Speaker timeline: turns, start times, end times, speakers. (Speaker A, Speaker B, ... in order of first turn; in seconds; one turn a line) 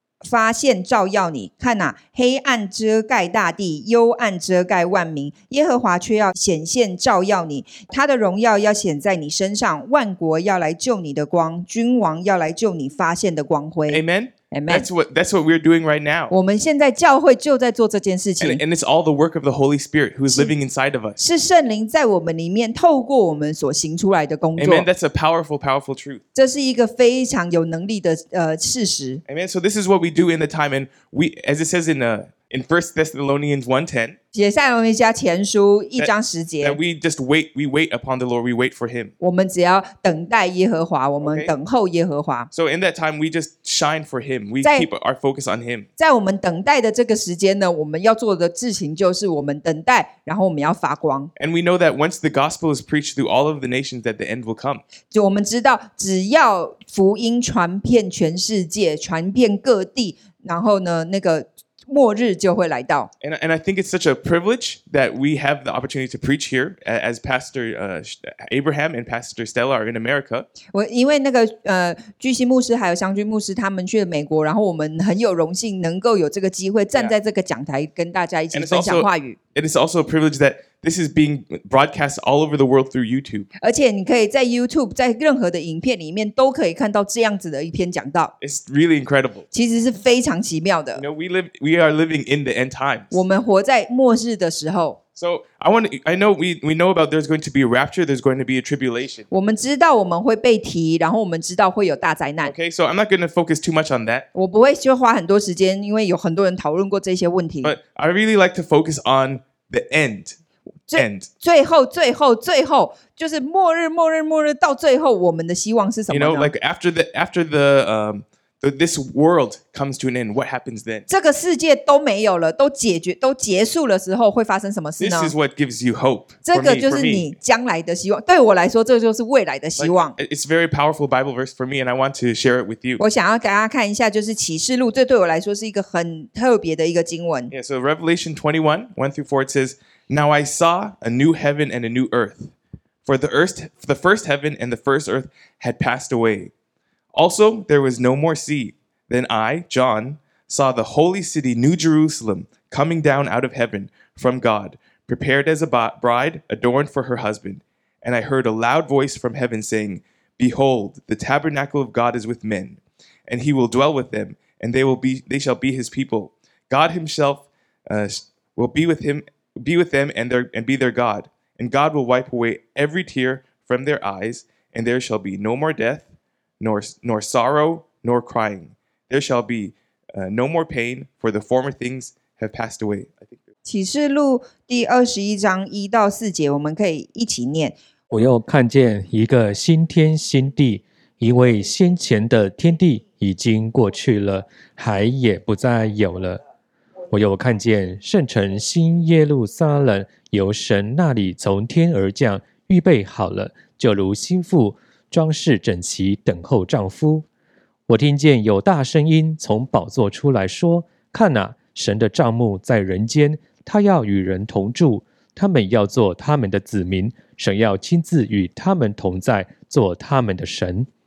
Speaker A: 0.2-14.9
Speaker B: 13.9-16.4
Speaker A: 16.3-18.6
Speaker B: 18.4-21.2
Speaker A: 21.2-24.9
Speaker B: 24.6-26.2
Speaker A: 26.4-29.2
Speaker B: 29.3-34.2
Speaker A: 34.3-36.8
Speaker B: 36.0-39.1
Speaker A: 39.2-42.5
Speaker B: 41.2-41.5
Speaker B: 42.5-45.9
Speaker A: 46.0-51.3
Speaker B: 51.4-54.8
Speaker A: 55.1-63.1
Speaker B: 63.2-70.5
Speaker A: 70.7-79.4
Speaker B: 78.5-83.5
Speaker A: 83.6-88.3
Speaker B: 88.4-89.5
Speaker A: 89.5-91.0
Speaker B: 91.0-93.2
Speaker A: 93.1-95.0
Speaker B: 95.2-99.3
Speaker A: 99.3-102.5
Speaker B: 102.4-104.3
Speaker A: 104.3-107.8
Speaker B: 107.6-110.4
Speaker A: 110.9-116.5
Speaker B: 111.0-111.3
Speaker B: 116.1-121.1
Speaker A: 121.1-125.3
Speaker B: 125.0-127.3
Speaker A: 126.5-130.2
Speaker B: 129.8-133.0
Speaker A: 133.0-137.5
Speaker B: 137.5-142.5
Speaker B: 143.0-146.5
Speaker B: 147.1-176.1
Speaker B: 176.6-183.4
Speaker A: 183.7-187.8
Speaker C: 188.1-196.4
Speaker C: 197.1-207.3
Speaker C: 207.9-220.9